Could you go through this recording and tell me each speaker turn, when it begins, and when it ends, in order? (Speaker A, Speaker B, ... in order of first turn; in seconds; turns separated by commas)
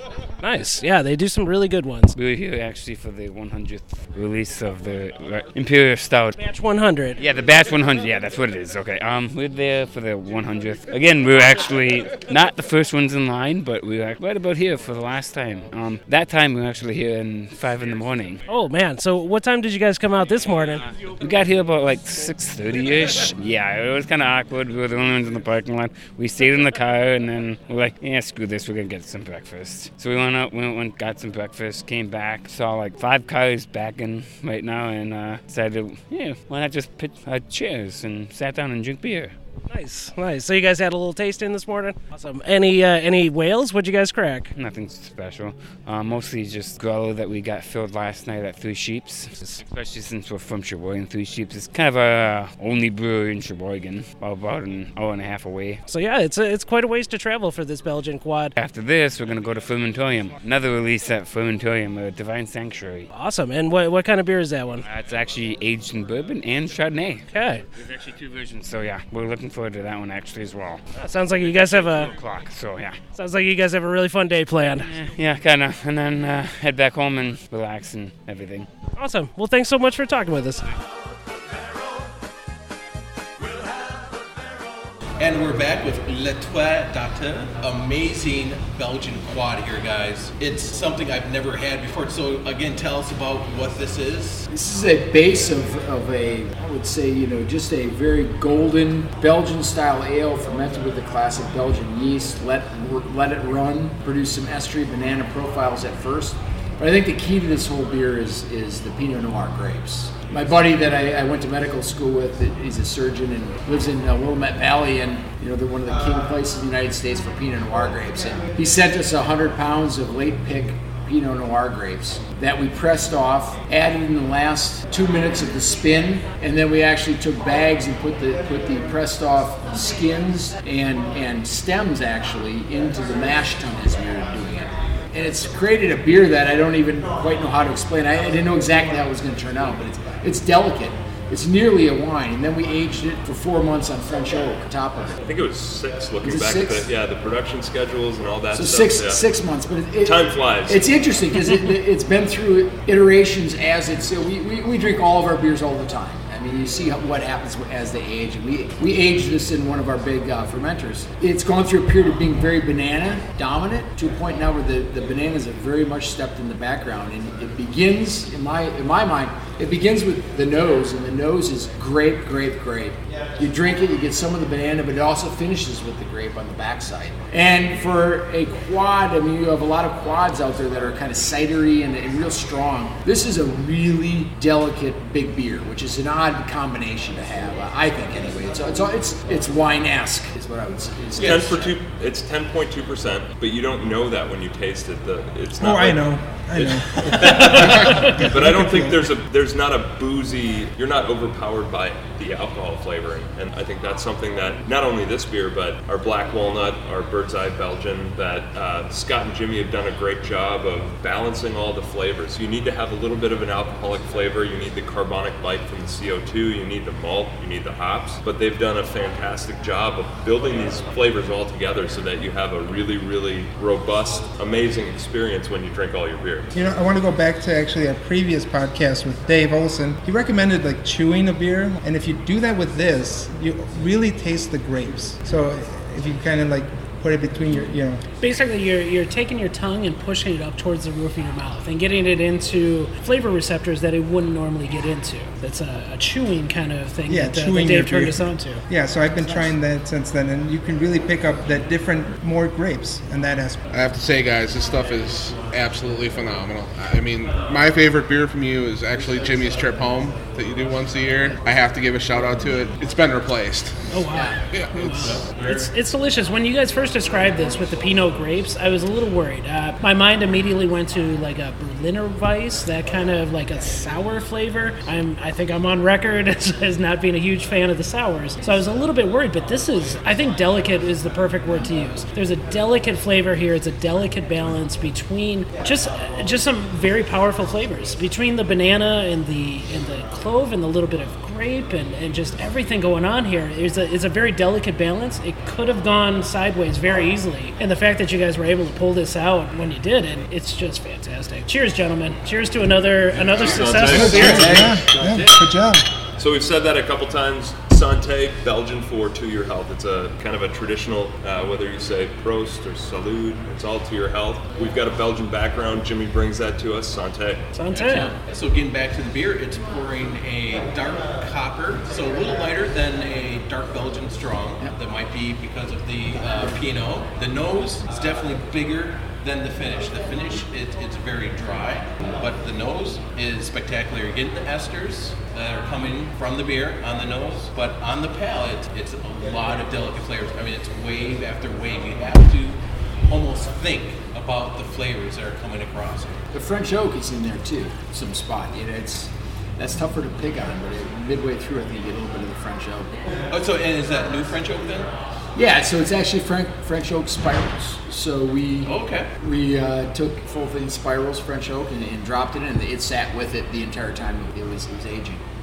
Speaker A: 0.4-2.1, Speaker B: 2.1-6.4, Speaker A: 6.4-7.2, Speaker B: 7.2-18.4, Speaker A: 18.5-20.8, Speaker B: 21.2-39.3, Speaker A: 39.7-44.5, Speaker B: 44.5-55.8, Speaker A: 55.9-58.5, Speaker B: 58.6-63.1, Speaker A: 63.1-64.8, Speaker B: 64.8-70.8, Speaker A: 67.3-67.6, Speaker A: 71.0-72.1, Speaker B: 71.5-73.0, Speaker A: 73.2-74.9, Speaker B: 74.8-78.7, Speaker A: 79.0-80.7, Speaker C: 85.2-94.5, Speaker D: 94.5-145.3, Speaker E: 145.2-149.2, Speaker D: 146.2-146.9, Speaker D: 148.5-191.7, Speaker E: 150.0-150.8, Speaker C: 191.2-191.5, Speaker E: 191.2-226.5, Speaker F: 195.6-199.0, Speaker F: 226.5-238.0, Speaker A: 238.2-248.6, Speaker F: 247.1-253.7, Speaker G: 253.7-263.8, Speaker A: 263.9-304.5, Speaker G: 264.5-265.2, Speaker C: 265.0-265.5, Speaker E: 303.4-304.8, Speaker C: 303.7-305.3, Speaker F: 303.9-305.8, Speaker E: 306.2-317.4, Speaker A: 317.5-318.1, Speaker C: 317.7-342.6, Speaker C: 343.1-346.2, Speaker D: 346.3-352.9, Speaker C: 353.3-354.9, Speaker D: 355.4-365.2, Speaker C: 358.6-359.1